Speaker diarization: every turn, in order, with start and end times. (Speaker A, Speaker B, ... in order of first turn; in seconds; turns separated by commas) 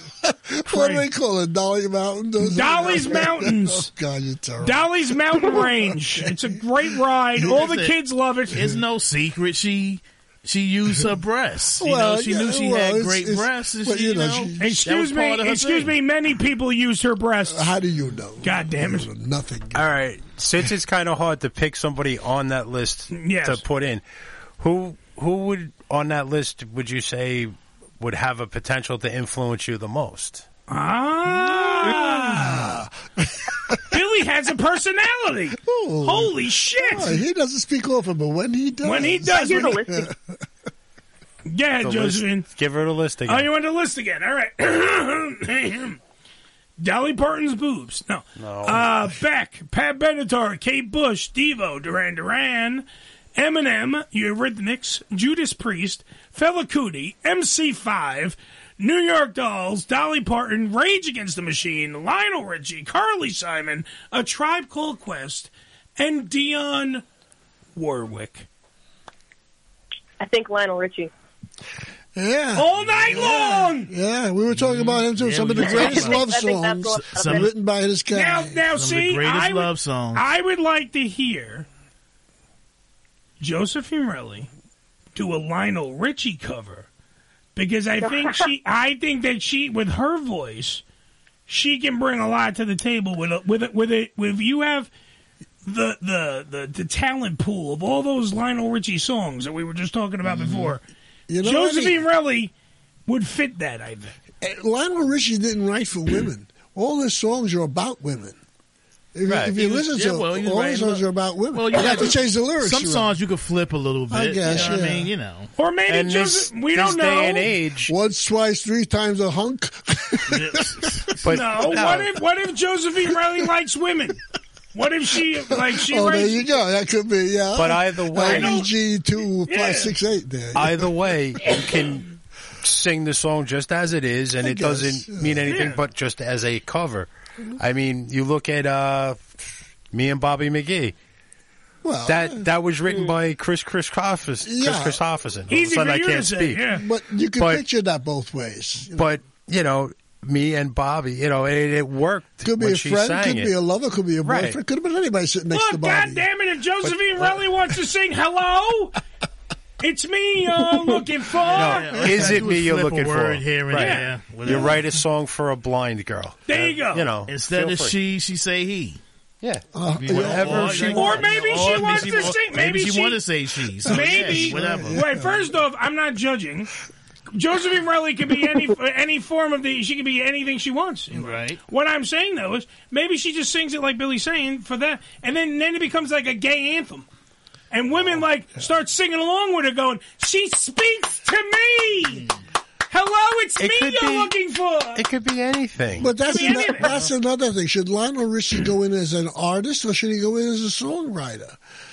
Speaker A: 0.2-6.8, Speaker B: 0.7-1.0, Speaker B: 2.4-3.9, Speaker B: 4.6-8.7, Speaker C: 7.4-7.9, Speaker C: 8.5-15.9, Speaker A: 11.8-14.8, Speaker B: 14.6-17.7, Speaker A: 17.5-19.9, Speaker B: 18.4-19.1, Speaker D: 19.7-24.0, Speaker B: 23.1-23.6, Speaker D: 24.6-30.4, Speaker B: 30.7-32.7, Speaker A: 31.8-33.8, Speaker B: 33.9-37.2, Speaker A: 35.6-40.4, Speaker B: 38.8-39.8, Speaker E: 39.3-40.1, Speaker B: 41.5-42.5, Speaker D: 41.8-43.5, Speaker B: 43.2-46.0, Speaker B: 46.8-67.0, Speaker D: 48.4-48.9, Speaker B: 67.8-68.5, Speaker E: 70.2-71.1, Speaker A: 72.1-78.6, Speaker B: 72.5-73.9, Speaker C: 74.5-76.3, Speaker E: 75.6-77.4, Speaker C: 76.9-77.5, Speaker B: 78.1-81.7, Speaker C: 78.7-80.3, Speaker B: 83.4-84.5, Speaker B: 85.1-86.9, Speaker B: 87.5-90.8, Speaker E: 88.0-88.5, Speaker B: 91.5-94.9, Speaker B: 95.6-100.8, Speaker C: 100.3-100.7, Speaker A: 101.3-102.0, Speaker B: 101.4-102.5, Speaker B: 103.1-104.1, Speaker A: 104.4-108.4, Speaker A: 109.1-113.1, Speaker D: 109.3-109.5, Speaker C: 109.5-115.5, Speaker A: 114.1-115.1, Speaker B: 115.6-117.5, Speaker D: 115.9-117.9, Speaker A: 117.9-120.8, Speaker C: 120.3-121.2, Speaker D: 121.2-122.1, Speaker B: 121.3-124.2, Speaker B: 124.7-126.5, Speaker A: 125.5-130.9, Speaker D: 127.5-128.6, Speaker B: 128.2-128.7, Speaker B: 129.5-129.9, Speaker D: 130.5-132.1, Speaker D: 132.6-139.4, Speaker A: 134.4-135.5, Speaker B: 135.5-135.8, Speaker D: 139.9-140.9, Speaker A: 141.8-142.5, Speaker D: 142.1-146.6, Speaker A: 144.4-145.0, Speaker B: 145.5-146.8, Speaker A: 146.7-149.2, Speaker D: 147.4-147.6, Speaker D: 148.9-153.5, Speaker A: 152.4-156.2, Speaker D: 154.2-154.6, Speaker B: 155.5-158.9, Speaker B: 159.8-161.9, Speaker C: 161.5-164.8, Speaker D: 161.5-167.9, Speaker A: 162.1-162.3, Speaker B: 163.7-164.1, Speaker B: 166.5-167.1, Speaker C: 167.3-169.0, Speaker D: 169.4-171.2, Speaker A: 169.7-171.2, Speaker C: 170.0-175.0, Speaker B: 170.9-173.2, Speaker B: 173.8-176.7, Speaker A: 173.8-175.5, Speaker B: 177.3-187.1, Speaker C: 181.1-181.6, Speaker B: 187.7-192.2, Speaker B: 192.9-195.0, Speaker D: 193.6-194.3, Speaker D: 194.9-197.1, Speaker A: 196.0-201.6, Speaker B: 196.3-196.9